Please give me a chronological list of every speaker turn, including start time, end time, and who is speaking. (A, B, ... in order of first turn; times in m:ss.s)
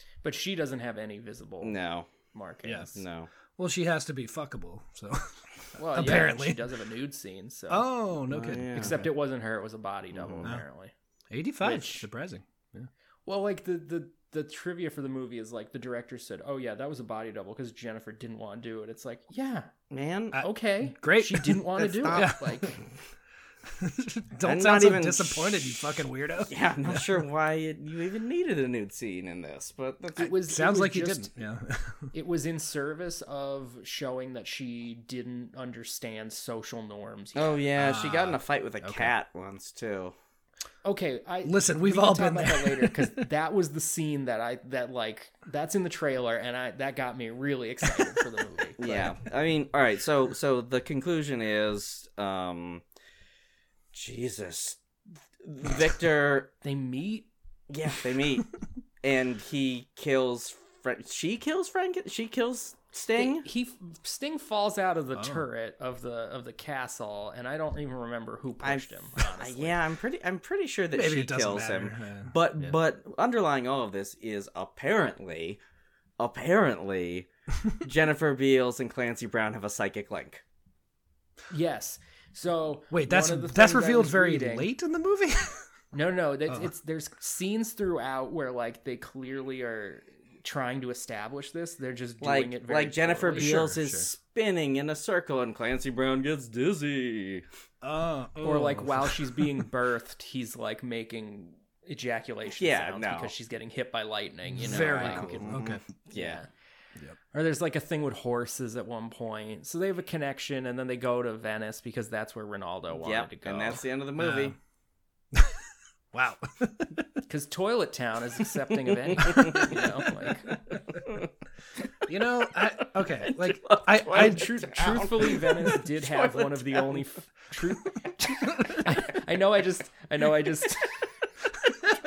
0:00.2-0:03.0 A
0:01.6-0:02.2 B
0:02.9-0:03.3 B
0:03.6-0:06.6 C
0:05.8-0:07.9 A
0:07.7-0:09.1 C
0:08.3-0:09.0 B
0:08.8-0:10.9 A
0:10.1-0:10.5 B
0:11.3-0:12.9 C
0:11.6-0:12.0 A
0:13.3-0:19.7 A
0:19.9-0:20.4 B
0:20.3-0:22.7 C
0:20.4-0:22.8 A
0:21.8-0:22.5 B
0:23.7-0:27.1 C
0:24.4-0:25.7 B
0:26.4-0:30.4 B
0:30.2-0:31.3 A
0:30.4-0:32.1 C
0:32.1-0:37.6 A
0:37.4-0:40.1 B
0:37.8-0:39.1 C
0:40.8-0:49.1 A
0:41.4-0:43.2 C
0:48.8-0:52.8 B
0:53.9-0:54.8 B
0:55.4-0:56.5 B
0:56.6-0:57.3 A
0:57.7-0:58.5 B
0:59.0-1:03.5 B
1:03.2-1:09.8 A
1:05.2-1:05.4 C
1:08.6-1:15.6 B
1:10.9-1:12.7 C
1:16.2-1:20.4 B
1:21.5-1:24.7 A
1:22.9-1:25.7 C
1:25.9-1:33.6 A
1:32.2-1:37.5 B
1:33.3-1:34.1 C
1:37.8-1:39.7 C
1:38.4-1:45.6 A
1:42.6-1:43.3 B
1:44.6-1:45.8 C
1:44.6-1:46.4 B
1:46.1-1:46.5 A
1:47.3-1:53.8 A
1:52.9-1:54.6 B
1:54.2-1:54.6 C
1:55.3-1:57.1 C
1:57.3-2:00.6 A
1:59.0-1:59.9 B
1:59.2-1:59.8 C
2:00.7-2:01.3 B
2:02.1-2:04.5 C
2:03.0-2:07.0 B
2:04.1-2:11.0 A